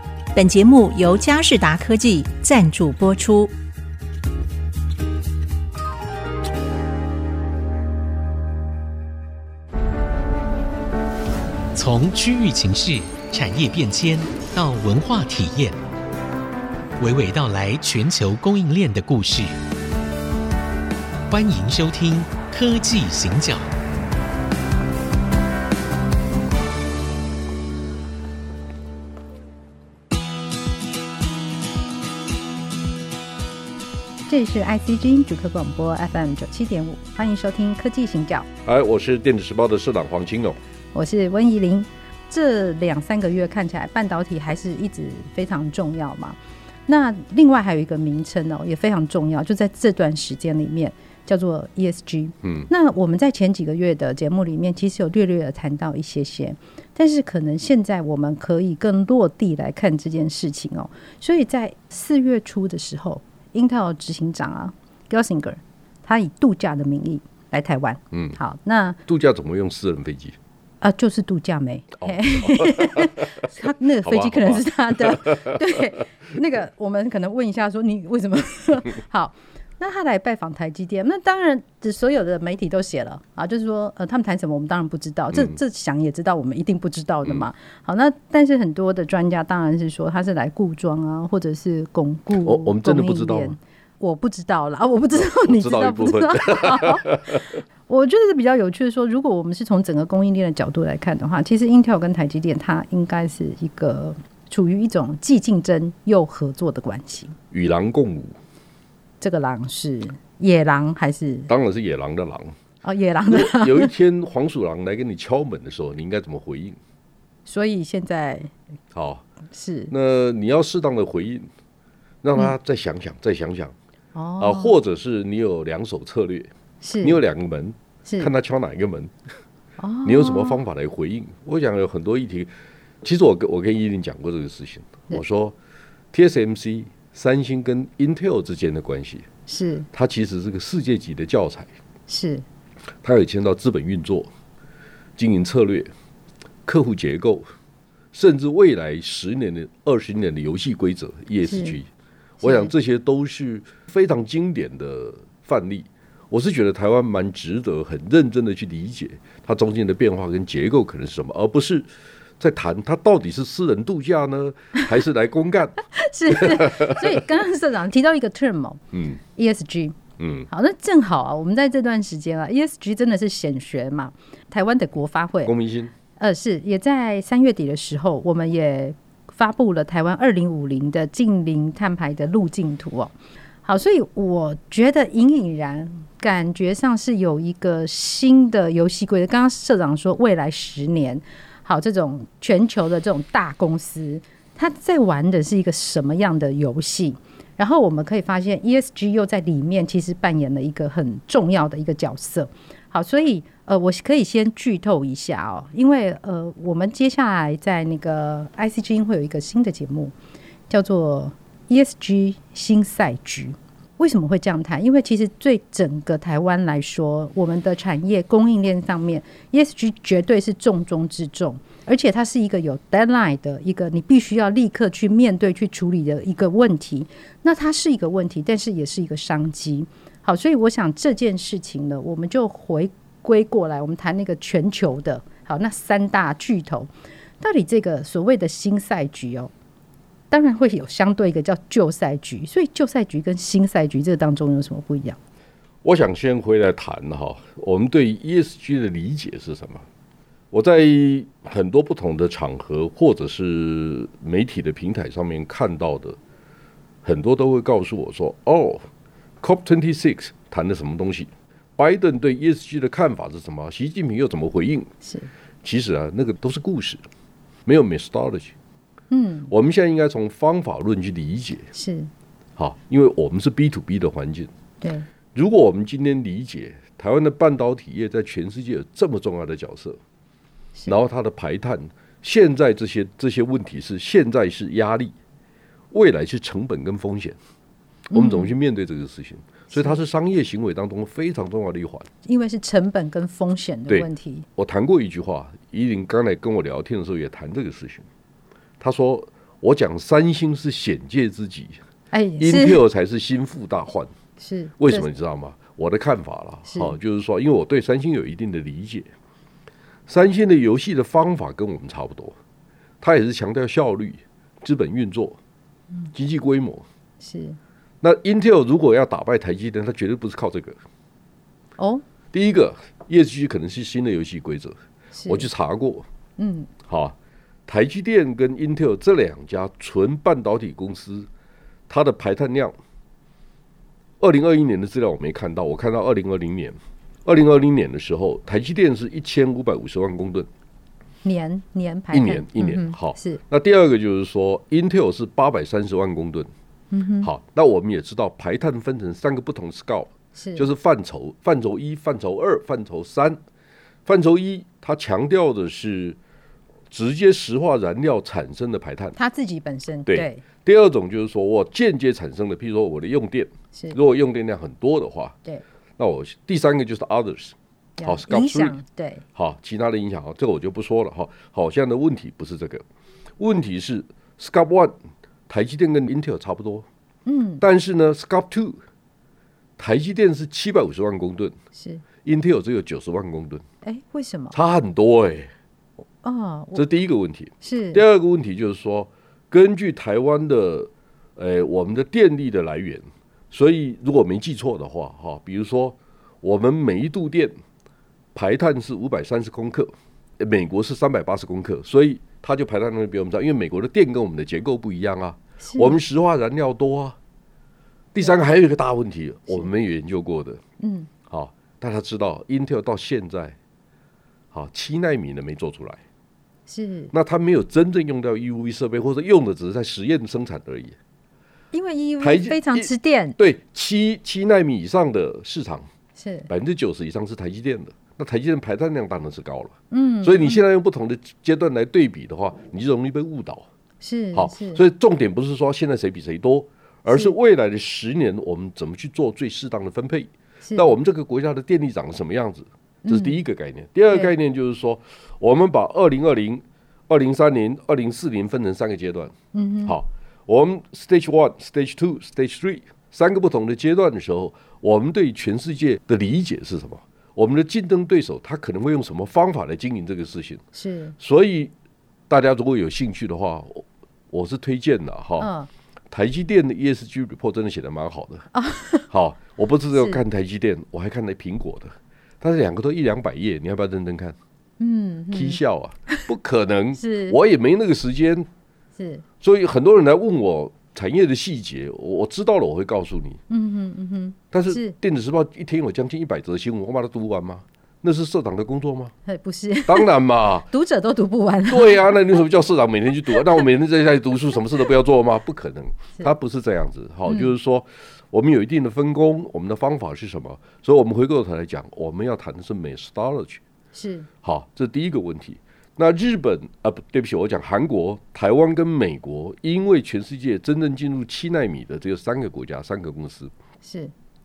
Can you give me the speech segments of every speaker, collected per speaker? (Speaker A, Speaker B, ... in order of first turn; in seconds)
Speaker A: 0.3-3.5
Speaker B: 11.8-15.8, 17.0-19.6, 21.3-23.7
Speaker C: 34.3-38.5, 40.9-69.0, 70.8-97.3, 97.9-107.4, 109.2-111.5, 112.8-113.9, 117.5-118.5, 119.5-119.9, 124.2-124.8, 126.8-127.2, 128.1-128.3, 129.8-130.6, 139.5-139.9, 142.1-142.4, 151.4-151.8, 152.4-152.7, 165.9-168.8, 169.3-170.0, 170.5-175.5, 176.2-183.1, 183.7-210.1, 210.7-239.5, 240.3-245.2, 265.0-265.3, 269.1-269.5, 271.7-272.1, 288.1-288.5, 289.7-290.0, 292.2-294.5, 302.1-302.8, 304.4-305.1, 306.7-307.0, 317.2-317.6, 321.8-322.0, 325.1-325.5, 326.4-326.7, 341.2-343.4, 346.9-347.3, 350.4-350.7, 359.2-360.4, 368.0-369.2, 377.3-377.6, 381.8-382.0, 383.8-384.6, 386.2-386.8, 387.6-388.0, 405.6-406.0, 410.8-411.1, 416.7-417.1, 421.7-423.4, 426.2-426.5, 429.9-430.6, 434.0-434.8, 437.1-437.3, 440.6-440.9, 443.1-443.4, 449.5-450.0, 460.7-461.1, 465.4-465.7, 468.5-469.1, 469.9-470.2, 474.8-476.3, 477.0-477.4, 479.0-479.2, 483.5-484.9, 489.3-490.1, 490.7-492.3, 497.3-497.5, 503.9-504.3, 513.8-514.1
Speaker D: 38.6-40.6, 68.1-68.4, 69.1-70.4, 72.0-73.3, 74.0-75.8, 85.3-85.6, 92.4-93.6, 95.2-97.6, 107.5-108.3, 111.5-112.5, 113.3-116.8, 118.9-119.2, 119.9-121.5, 122.2-123.8, 124.4-126.5, 127.0-129.1, 130.1-132.5, 133.0-135.6, 136.1-139.3, 139.9-141.7, 143.0-144.3, 145.2-145.9, 146.7-147.4, 148.1-151.9, 152.4-165.8, 166.3-167.2, 168.9-169.2, 170.2-170.5, 175.4-175.9, 245.8-249.8, 250.5-256.2, 257.0-258.9, 259.4-264.9, 265.6-267.0, 267.7-268.5, 269.5-271.7, 272.6-274.5, 275.3-280.0, 280.9-285.1, 285.9-287.4, 288.1-292.1, 293.9-298.1, 298.8-301.8, 302.4-304.1, 304.8-309.1, 310.1-312.4, 313.0-315.4, 316.1-316.9, 318.0-320.8, 322.3-326.1, 326.9-327.2, 327.7-331.3, 331.9-332.8, 334.2-340.5, 342.1-346.5, 347.2-353.4, 354.1-356.2, 356.9-359.2, 360.1-365.4, 366.0-368.8, 369.4-372.9, 373.4-375.0, 375.5-376.9, 377.6-378.8, 379.8-381.6, 382.2-383.6, 384.5-385.5, 386.8-397.6, 398.4-407.2, 408.1-410.6, 411.3-413.6, 414.5-416.0, 417.1-421.0, 422.2-425.9, 426.5-433.7, 434.3-449.3, 449.9-460.6, 461.2-461.7, 462.3-465.5, 466.1-468.5, 469.1-474.4, 475.3-478.5, 479.4-483.4, 484.5-489.1, 489.9-490.7, 491.7-503.6, 504.4-513.5